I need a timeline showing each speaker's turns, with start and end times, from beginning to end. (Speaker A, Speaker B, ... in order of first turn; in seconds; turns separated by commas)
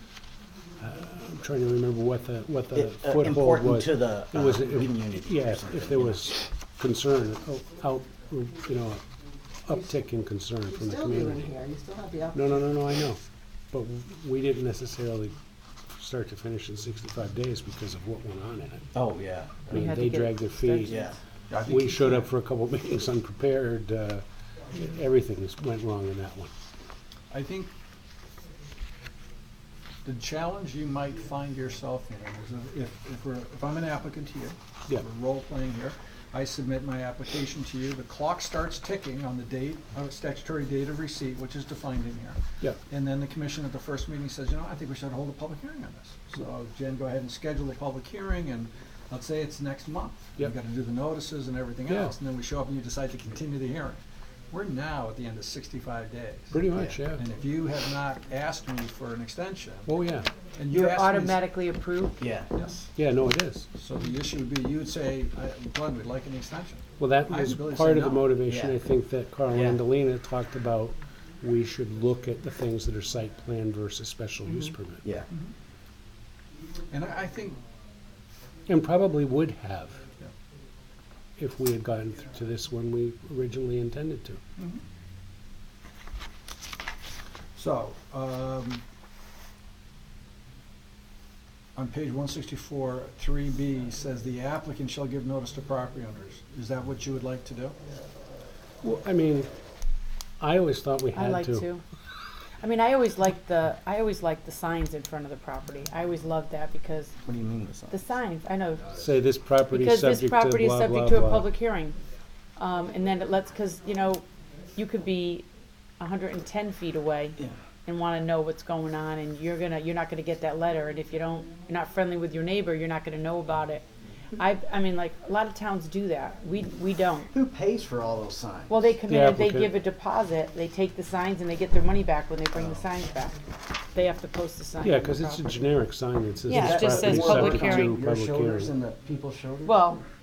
Speaker A: 0.8-9.0, Speaker B: 2.7-6.4, Speaker A: 9.6-11.6, Speaker C: 10.6-12.7, Speaker A: 12.3-18.9, Speaker B: 18.9-19.9, Speaker A: 19.7-21.1, Speaker D: 19.7-21.0, Speaker B: 20.9-21.2, Speaker E: 21.5-22.3, Speaker A: 21.6-26.5, Speaker E: 27.3-27.7, Speaker E: 30.0-59.9, Speaker A: 51.9-52.1, Speaker A: 56.5-57.2, Speaker B: 56.7-57.0, Speaker A: 59.9-60.3, Speaker E: 60.5-61.4, Speaker D: 60.7-62.2, Speaker B: 62.2-62.7, Speaker E: 62.5-62.9, Speaker A: 62.9-63.7, Speaker E: 63.7-68.3, Speaker A: 67.0-75.0, Speaker B: 68.5-68.8, Speaker B: 69.5-69.8, Speaker B: 75.0-75.3, Speaker E: 75.3-75.5, Speaker E: 76.9-77.6, Speaker A: 78.7-80.0, Speaker A: 81.4-84.4, Speaker E: 84.6-84.8, Speaker E: 87.5-88.8, Speaker E: 91.7-97.8, Speaker A: 98.8-99.5, Speaker A: 100.4-101.7, Speaker D: 101.1-101.8, Speaker D: 102.6-107.1, Speaker B: 107.2-108.0, Speaker D: 107.9-109.0, Speaker A: 108.9-111.5, Speaker D: 109.7-112.0, Speaker D: 112.5-127.3, Speaker B: 127.3-128.9, Speaker D: 128.7-135.5, Speaker A: 129.1-129.7, Speaker A: 134.8-138.8, Speaker D: 136.4-138.0, Speaker B: 136.5-139.9, Speaker D: 139.6-140.0